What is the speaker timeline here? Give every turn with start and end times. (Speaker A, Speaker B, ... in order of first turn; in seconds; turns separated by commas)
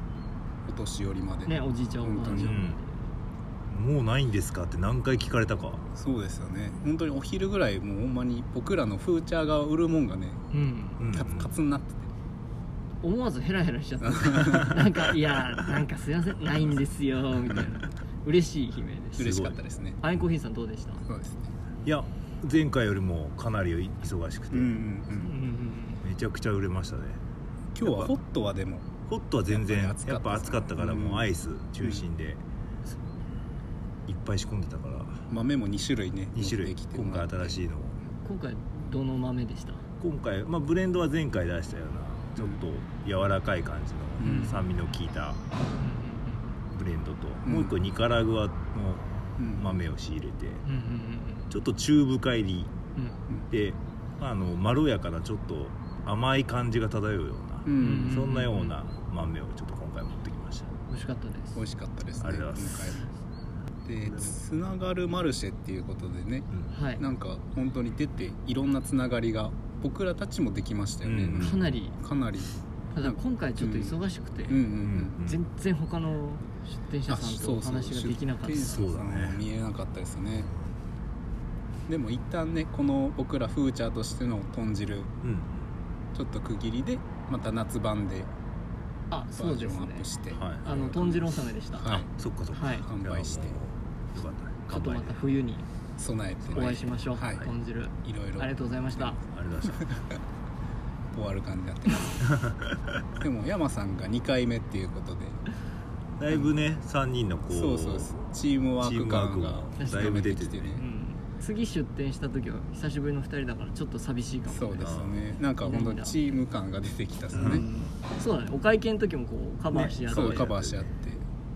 Speaker A: 0.7-2.6, Speaker B: 1.5-3.0, Speaker C: 2.3-2.8, Speaker C: 3.7-5.8, Speaker A: 5.9-10.5, Speaker B: 10.5-11.0, Speaker C: 11.0-11.6, Speaker A: 11.0-12.1, Speaker B: 13.0-19.4, Speaker A: 14.0-14.8, Speaker A: 19.2-20.0, Speaker C: 19.2-19.6, Speaker B: 20.0-21.0, Speaker A: 21.1-21.5, Speaker C: 21.8-24.7, Speaker A: 24.5-25.4, Speaker B: 25.1-26.0, Speaker C: 26.0-27.2, Speaker A: 27.8-28.9, Speaker C: 27.8-28.1, Speaker C: 29.1-32.4, Speaker A: 29.5-31.3, Speaker B: 32.9-33.3, Speaker C: 34.1-35.2, Speaker A: 35.3-37.6, Speaker C: 36.3-38.0, Speaker B: 38.2-39.8, Speaker C: 40.0-45.4, Speaker A: 44.2-44.6, Speaker B: 44.2-44.6, Speaker B: 45.8-46.6, Speaker C: 46.7-50.6, Speaker A: 47.4-47.7, Speaker A: 49.4-49.7, Speaker B: 50.6-51.5, Speaker C: 51.5-52.7, Speaker C: 53.5-60.7, Speaker A: 57.6-58.4, Speaker B: 57.7-58.7, Speaker B: 60.9-61.6, Speaker A: 61.6-63.1, Speaker C: 62.2-63.0, Speaker A: 63.9-73.9, Speaker B: 66.7-67.0, Speaker C: 71.0-71.7, Speaker B: 71.3-72.0, Speaker B: 72.9-78.8, Speaker A: 74.5-75.2, Speaker C: 74.8-75.4, Speaker A: 77.1-80.5, Speaker C: 78.7-79.4, Speaker A: 81.9-85.1, Speaker C: 85.2-85.6, Speaker A: 86.1-88.3, Speaker B: 89.1-90.1, Speaker A: 89.3-91.2, Speaker C: 90.3-91.1, Speaker B: 90.6-92.8, Speaker A: 91.8-92.1, Speaker C: 92.1-95.2, Speaker A: 92.8-93.6, Speaker B: 94.7-95.7, Speaker A: 96.0-99.2, Speaker B: 96.5-99.2, Speaker C: 99.3-99.9, Speaker A: 101.1-102.3, Speaker C: 102.3-103.0, Speaker A: 103.2-105.4, Speaker C: 106.2-108.1, Speaker A: 107.5-110.8, Speaker C: 108.8-110.8, Speaker B: 109.8-115.0, Speaker A: 114.5-117.6, Speaker C: 114.8-115.2, Speaker B: 115.6-116.2, Speaker B: 117.3-120.6, Speaker C: 117.3-117.6, Speaker C: 119.7-120.9, Speaker A: 120.1-121.2